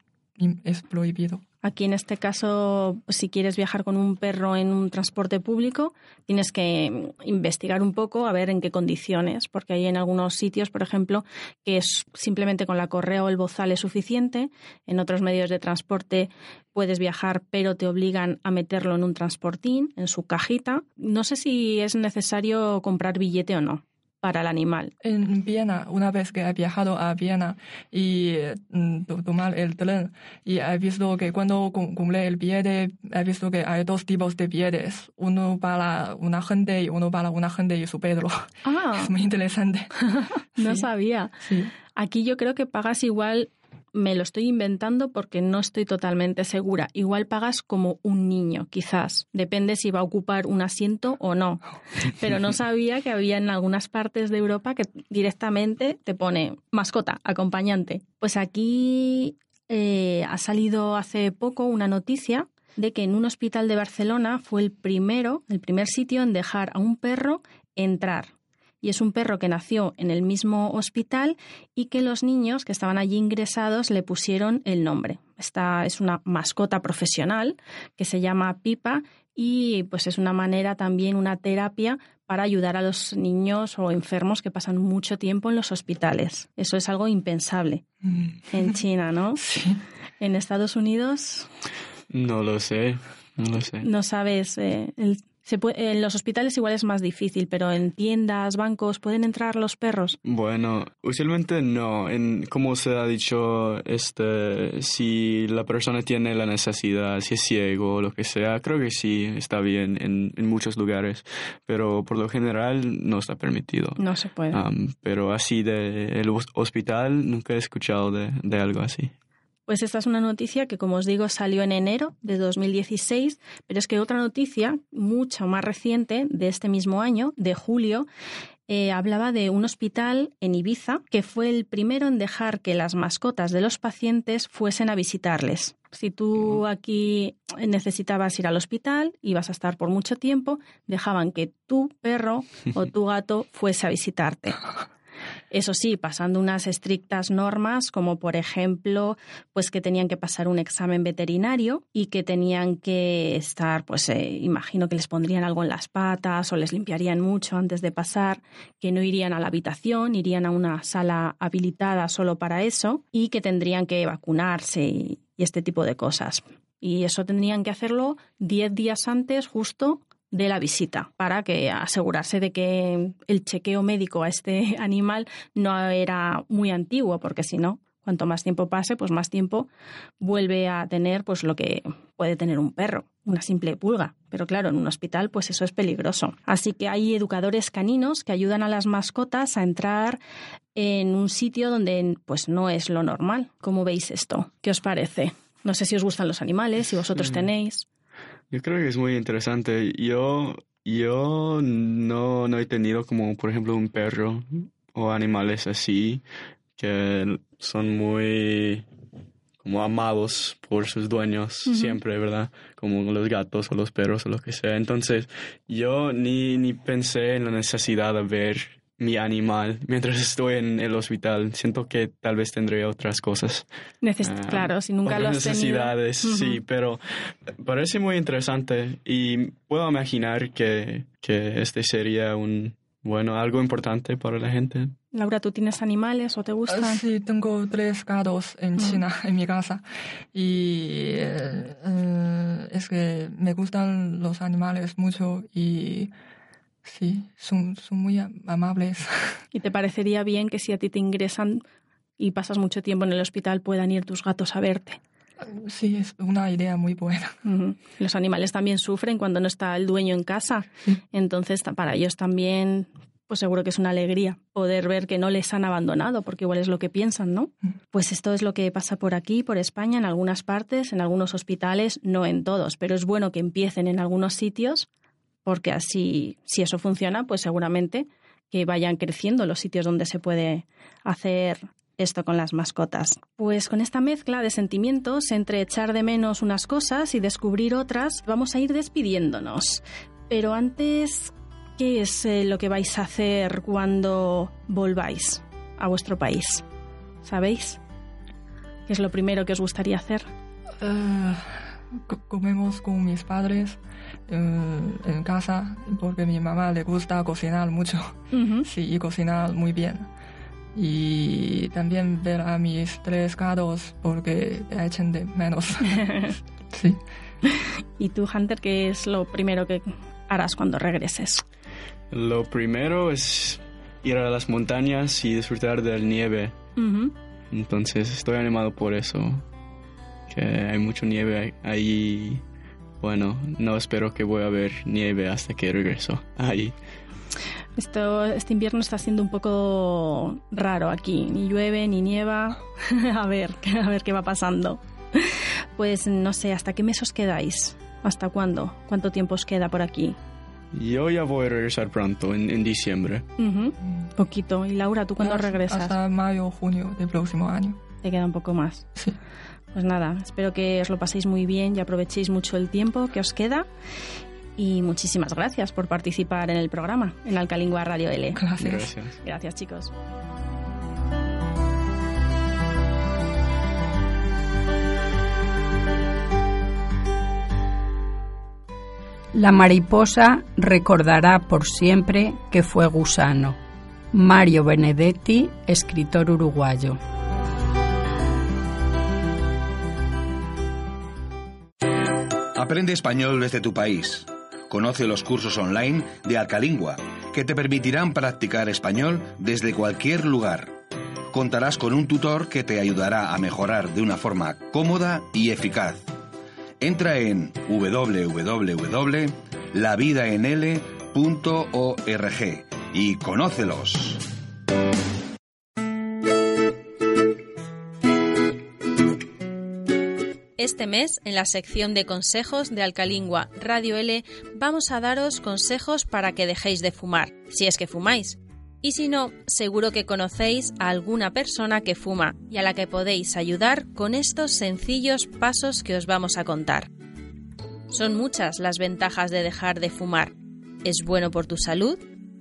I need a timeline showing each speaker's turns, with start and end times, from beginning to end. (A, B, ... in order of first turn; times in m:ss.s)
0:00.4-0:01.4 A
0:01.6-0:24.9 B
0:25.0-0:39.9 A
0:38.6-0:39.1 B
0:40.0-0:41.4 B
0:40.6-0:40.9 A
0:41.4-0:41.7 A
0:42.0-1:27.8 B
1:28.0-1:28.8 A
1:28.5-1:29.4 B
1:29.4-1:29.8 A
1:30.2-1:31.5 B
1:32.1-1:33.9 C
1:33.8-1:40.2 B
1:40.2-1:59.1 C
1:54.0-1:54.6 B
1:59.7-2:08.1 B
2:08.7-2:24.6 B
2:25.5-2:59.7 B
3:00.2-3:10.2 B
3:10.8-3:17.9 B
3:17.2-3:17.5 C
3:18.5-3:26.2 C
3:26.8-3:28.9 C
3:29.6-3:43.7 C
3:31.7-3:32.0 B
3:44.0-3:46.6 B
3:44.2-3:55.0 C
3:55.1-3:57.0 B
3:56.7-4:06.1 A
3:58.8-3:59.0 B
4:06.8-4:09.4 A
4:09.5-4:11.6 B
4:12.2-4:15.0 B
4:15.4-4:17.4 A
4:17.4-4:34.9 B
4:35.5-4:56.6 B
4:57.2-4:57.8 B
4:58.9-5:00.3 B
5:00.8-5:10.1 A
5:08.3-5:08.7 B
5:10.8-5:17.0 A
5:15.9-5:16.4 B
5:17.5-5:21.4 B
5:22.1-5:26.6 C
5:26.8-5:27.1 B
5:27.5-5:29.4 C
5:30.3-5:32.4 C
5:33.0-5:36.7 C
5:37.8-5:50.2 B
5:50.7-5:53.3 C
5:53.4-5:56.0 B
5:53.8-5:54.1 A
5:55.2-5:57.8 A
5:58.0-5:58.9 B
5:59.7-6:03.7 B
6:04.6-6:08.5 B
6:08.3-6:08.9 A
6:08.6-6:09.2 C
6:09.2-6:09.9 B
6:19.3-6:23.6 D
6:24.1-6:27.0 D
6:32.6-6:40.8 E
6:41.3-6:46.1 E
6:46.8-6:54.2 E
7:00.6-7:16.9 B
7:17.9-7:22.1 B